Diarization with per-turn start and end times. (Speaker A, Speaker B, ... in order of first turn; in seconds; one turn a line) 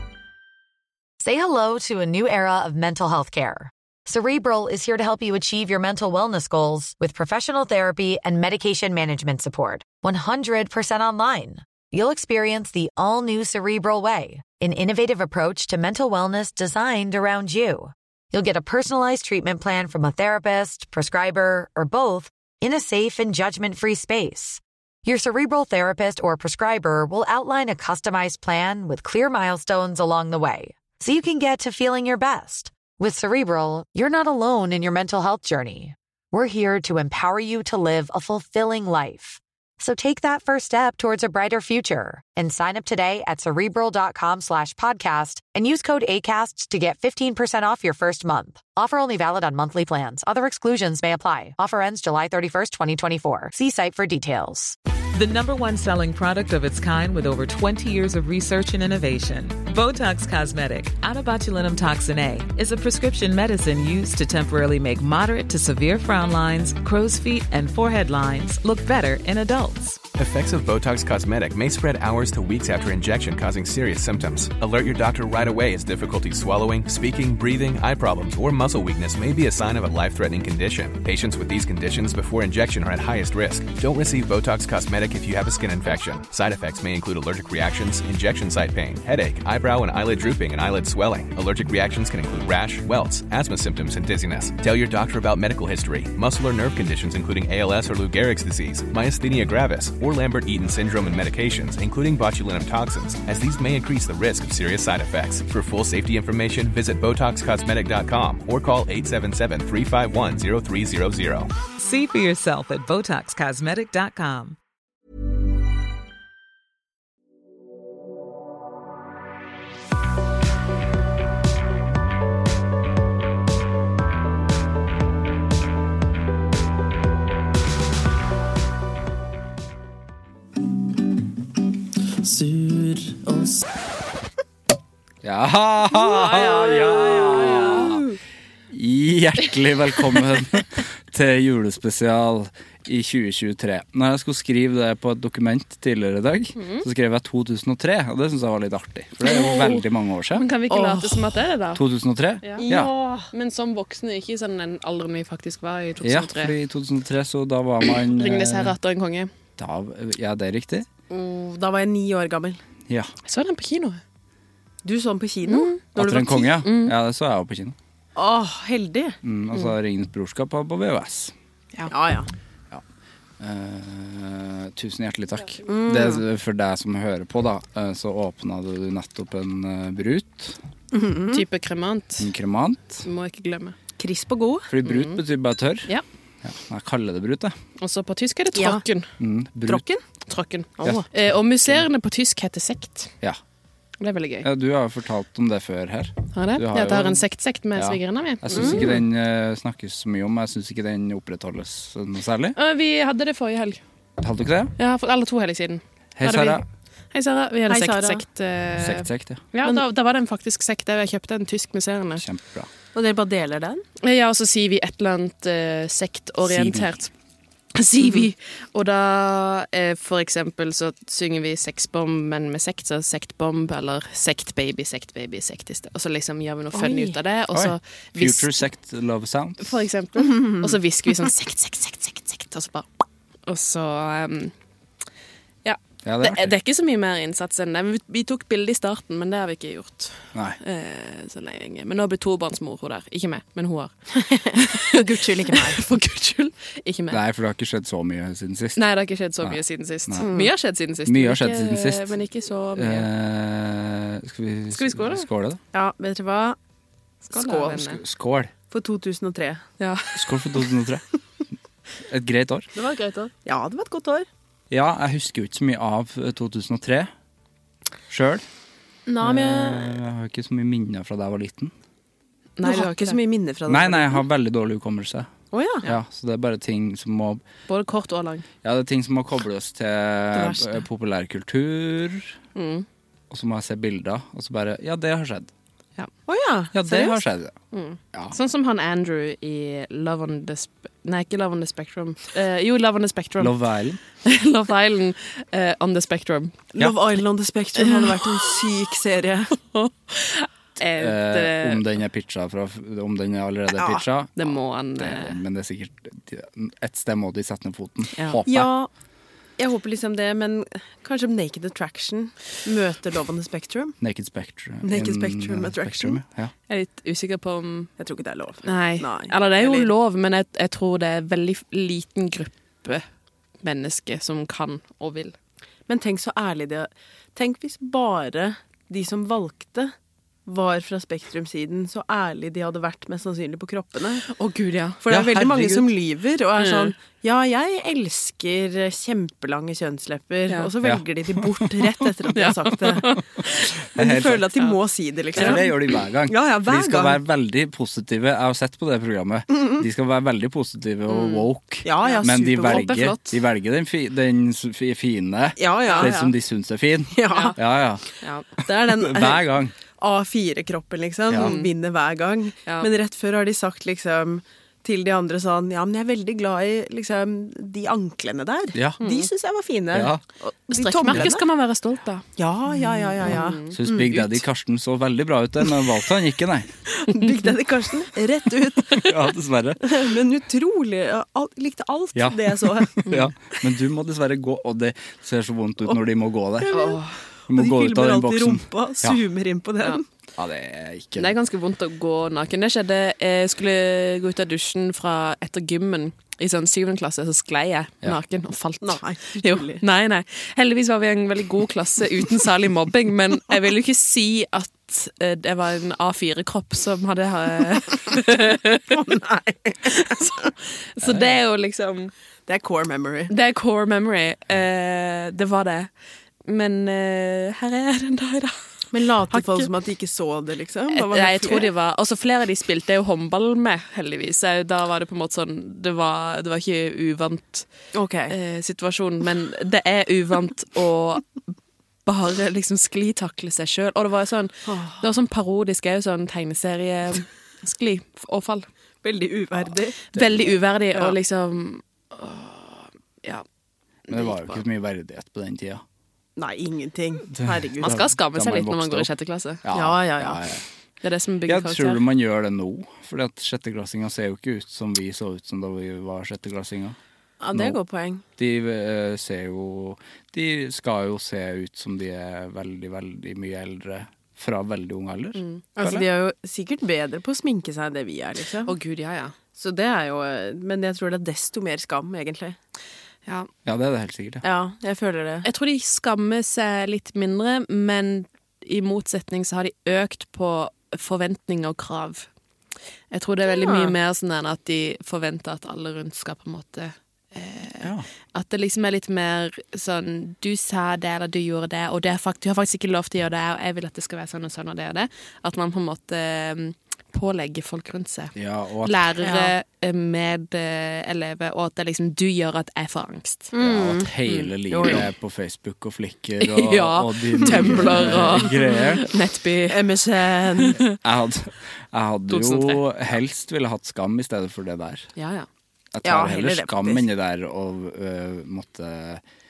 Speaker A: 1.2-54.8
Speaker B: 55.1-70.0
Speaker C: 70.2-111.5
Speaker B: 111.8-114.6
Speaker D: 135.2-138.0
Speaker E: 136.1-138.2
Speaker F: 137.3-137.6
Speaker D: 138.7-150.4
Speaker F: 146.5-146.8
Speaker F: 149.2-151.8
Speaker E: 150.7-151.4
Speaker D: 151.7-152.9
Speaker F: 152.4-152.7
Speaker E: 152.6-153.3
Speaker F: 153.3-156.5
Speaker D: 156.0-158.7
Speaker F: 158.1-159.3
Speaker D: 159.6-160.9
Speaker E: 161.1-162.6
Speaker F: 163.2-164.0
Speaker E: 164.8-166.6
Speaker F: 165.4-165.8
Speaker D: 165.9-167.8
Speaker F: 166.6-166.9
Speaker E: 168.2-169.2
Speaker D: 169.2-171.3
Speaker E: 171.9-172.3
Speaker D: 173.4-180.6
Speaker E: 175.7-176.2
Speaker E: 180.9-181.4
Speaker F: 181.3-182.3
Speaker D: 182.2-183.0
Speaker F: 183.0-183.8
Speaker E: 184.0-184.7
Speaker D: 184.7-185.9
Speaker F: 184.8-185.2
Speaker D: 186.4-187.5
Speaker F: 187.8-189.1
Speaker E: 188.5-188.8
Speaker D: 189.2-189.8
Speaker E: 189.7-190.0
Speaker F: 190.3-193.1
Speaker E: 190.8-191.1
Speaker D: 190.8-191.8
Speaker F: 194.0-194.5
Speaker D: 194.4-202.6
Speaker F: 196.3-199.0
Speaker E: 198.6-198.8
Speaker F: 202.6-203.8
Speaker D: 204.2-204.7
Speaker F: 204.8-212.2
Speaker D: 206.2-206.6
Speaker E: 207.7-208.2
Speaker D: 208.8-209.4
Speaker D: 212.2-212.7
Speaker E: 212.9-213.8
Speaker F: 214.0-217.1
Speaker D: 216.4-216.9
Speaker F: 217.7-228.6
Speaker E: 226.7-227.2
Speaker D: 227.5-229.8
Speaker F: 229.6-232.9
Speaker E: 230.3-230.7
Speaker F: 233.5-234.5
Speaker F: 235.6-243.9
Speaker D: 236.0-236.5
Speaker D: 240.3-240.6
Speaker E: 244.2-245.8
Speaker F: 244.5-247.2
Speaker D: 247.1-248.9
Speaker F: 248.8-253.1
Speaker D: 249.4-250.3
Speaker E: 250.2-250.5
Speaker D: 251.0-252.2
Speaker D: 252.7-255.6
Speaker F: 254.7-255.3
Speaker E: 255.7-256.6
Speaker F: 257.3-258.0
Speaker E: 257.3-257.8
Speaker D: 257.7-258.5
Speaker E: 258.7-259.6
Speaker F: 259.8-260.4
Speaker D: 260.1-261.0
Speaker D: 262.1-262.7
Speaker F: 262.7-263.3
Speaker E: 263.4-264.3
Speaker D: 264.7-267.1
Speaker D: 268.1-268.4
Speaker E: 269.1-269.8
Speaker D: 269.2-271.7
Speaker F: 272.6-273.2
Speaker E: 272.6-274.2
Speaker D: 273.7-275.3
Speaker E: 275.5-275.9
Speaker D: 275.8-277.4
Speaker F: 277.7-278.4
Speaker D: 278.6-282.3
Speaker E: 280.3-280.8
Speaker F: 282.5-282.9
Speaker D: 283.3-285.5
Speaker E: 286.3-287.2
Speaker D: 286.7-287.6
Speaker F: 287.7-293.5
Speaker D: 293.4-294.0
Speaker F: 294.2-296.6
Speaker E: 296.7-299.5
Speaker F: 297.8-298.5
Speaker F: 299.6-301.9
Speaker D: 301.0-308.7
Speaker E: 303.7-304.0
Speaker F: 304.4-305.4
Speaker E: 308.4-308.9
Speaker E: 309.6-314.0
Speaker D: 314.0-316.5
Speaker E: 314.8-316.2
Speaker F: 316.7-317.9
Speaker E: 318.0-319.9
Speaker F: 318.6-323.1
Speaker F: 323.6-325.3
Speaker E: 325.9-329.9
Speaker E: 330.4-334.2
Speaker F: 334.2-335.0
Speaker E: 335.0-343.2
Speaker D: 335.1-335.9
Speaker F: 336.6-336.9
Speaker D: 340.8-341.9
Speaker F: 342.3-343.6
Speaker D: 343.9-344.5
Speaker E: 343.9-347.2
Speaker F: 345.3-345.7
Speaker D: 345.3-358.0
Speaker F: 351.1-351.5
Speaker E: 351.8-352.9
Speaker F: 352.0-353.4
Speaker E: 355.6-356.3
Speaker F: 355.9-356.1
Speaker E: 357.1-357.7
Speaker F: 357.3-357.6
Speaker F: 358.2-358.5
Speaker D: 358.6-359.7
Speaker E: 358.6-371.4
Speaker D: 361.3-361.5
Speaker F: 361.3-361.7
Speaker D: 368.7-369.0
Speaker F: 369.0-369.3
Speaker D: 369.9-370.2
Speaker F: 370.7-372.3
Speaker D: 371.1-371.4
Speaker E: 372.4-374.4
Speaker F: 372.8-373.7
Speaker D: 373.3-376.7
Speaker E: 376.9-379.1
Speaker D: 379.0-380.1
Speaker E: 379.8-383.2
Speaker D: 382.1-386.7
Speaker E: 386.6-387.0
Speaker F: 386.7-387.2
Speaker D: 387.5-389.2
Speaker E: 387.5-390.0
Speaker D: 390.4-391.3
Speaker F: 391.2-408.9
Speaker E: 398.8-399.8
Speaker E: 408.9-410.3
Speaker F: 409.8-412.1
Speaker D: 411.0-411.3
Speaker E: 412.5-413.3
Speaker F: 413.3-415.9
Speaker F: 416.4-418.6
Speaker E: 418.9-421.7
Speaker F: 419.3-419.7
Speaker F: 420.9-427.7
Speaker E: 427.9-428.3
Speaker F: 428.3-431.2
Speaker F: 432.1-438.6
Speaker E: 434.6-435.0
Speaker E: 439.0-440.1
Speaker F: 440.1-443.4
Speaker F: 444.1-444.6
Speaker D: 444.1-445.8
Speaker E: 446.4-448.1
Speaker D: 447.3-449.1
Speaker F: 447.8-449.6
Speaker D: 449.6-450.6
Speaker E: 449.7-450.4
Speaker F: 451.0-452.0
Speaker D: 451.4-456.9
Speaker E: 457.4-458.2
Speaker D: 457.5-457.8
Speaker D: 458.4-466.1
Speaker F: 465.3-465.6
Speaker E: 465.8-468.7
Speaker F: 468.6-469.4
Speaker E: 469.6-472.6
Speaker D: 473.6-474.4
Speaker E: 474.4-475.5
Speaker F: 475.4-482.3
Speaker F: 483.1-503.5
Speaker E: 483.4-483.9
Speaker D: 487.8-488.1
Speaker D: 498.3-499.1
Speaker E: 499.2-499.5
Speaker E: 503.5-505.0
Speaker D: 503.6-509.0
Speaker F: 504.2-505.0
Speaker F: 506.4-509.8
Speaker E: 507.4-508.8
Speaker E: 509.7-510.8
Speaker F: 510.6-511.0
Speaker D: 511.0-515.1
Speaker F: 512.3-512.8
Speaker F: 515.1-515.5
Speaker D: 515.9-519.2
Speaker E: 516.0-517.0